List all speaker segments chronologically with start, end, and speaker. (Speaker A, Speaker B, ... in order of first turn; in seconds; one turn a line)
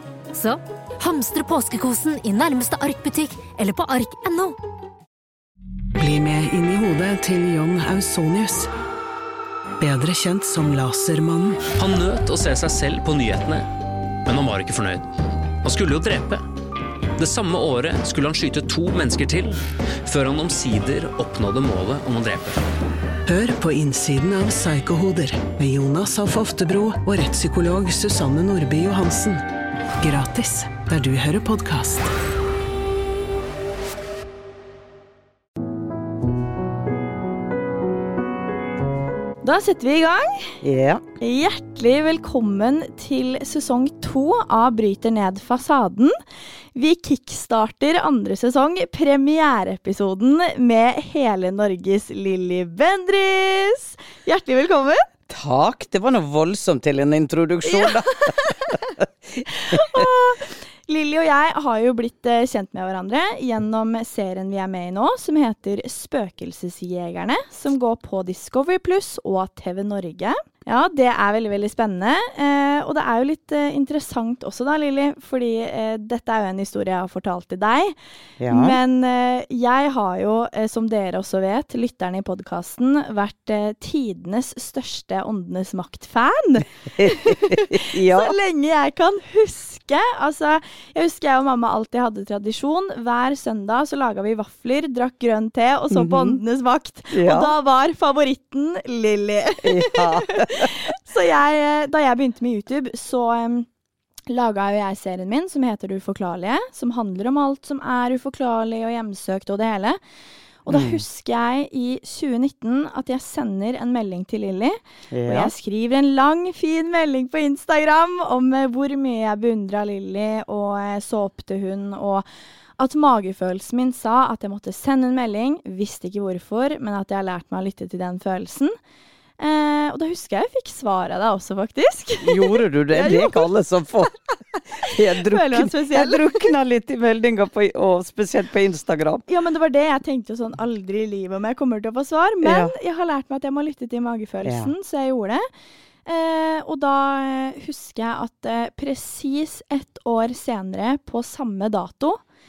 Speaker A: 0.3-4.6
Speaker B: 6.0-8.7
Speaker B: 9.8-11.7
Speaker C: 11.8-13.7
Speaker C: 14.2-15.1
Speaker C: 15.6-16.4
Speaker C: 17.2-22.6
Speaker B: 23.3-29.4
Speaker B: 30.0-32.1
Speaker D: 39.4-40.6
Speaker E: 40.6-41.0
Speaker D: 41.2-46.2
Speaker D: 46.8-55.1
Speaker E: 55.3-60.1
Speaker D: 57.6-58.8
Speaker D: 59.5-78.0
Speaker E: 78.4-78.8
Speaker D: 78.5-103.7
Speaker E: 87.0-88.3
Speaker E: 95.9-96.4
Speaker E: 97.1-97.5
Speaker E: 99.6-100.7
Speaker D: 104.3-110.0
Speaker D: 110.7-122.3
Speaker E: 110.7-111.0
Speaker E: 115.1-115.5
Speaker D: 122.8-128.7
Speaker D: 129.4-133.5
Speaker E: 132.2-134.1
Speaker E: 134.7-139.2
Speaker D: 134.8-136.5
Speaker D: 139.3-145.4
Speaker E: 142.4-142.7
Speaker E: 144.4-144.7
Speaker D: 146.1-152.2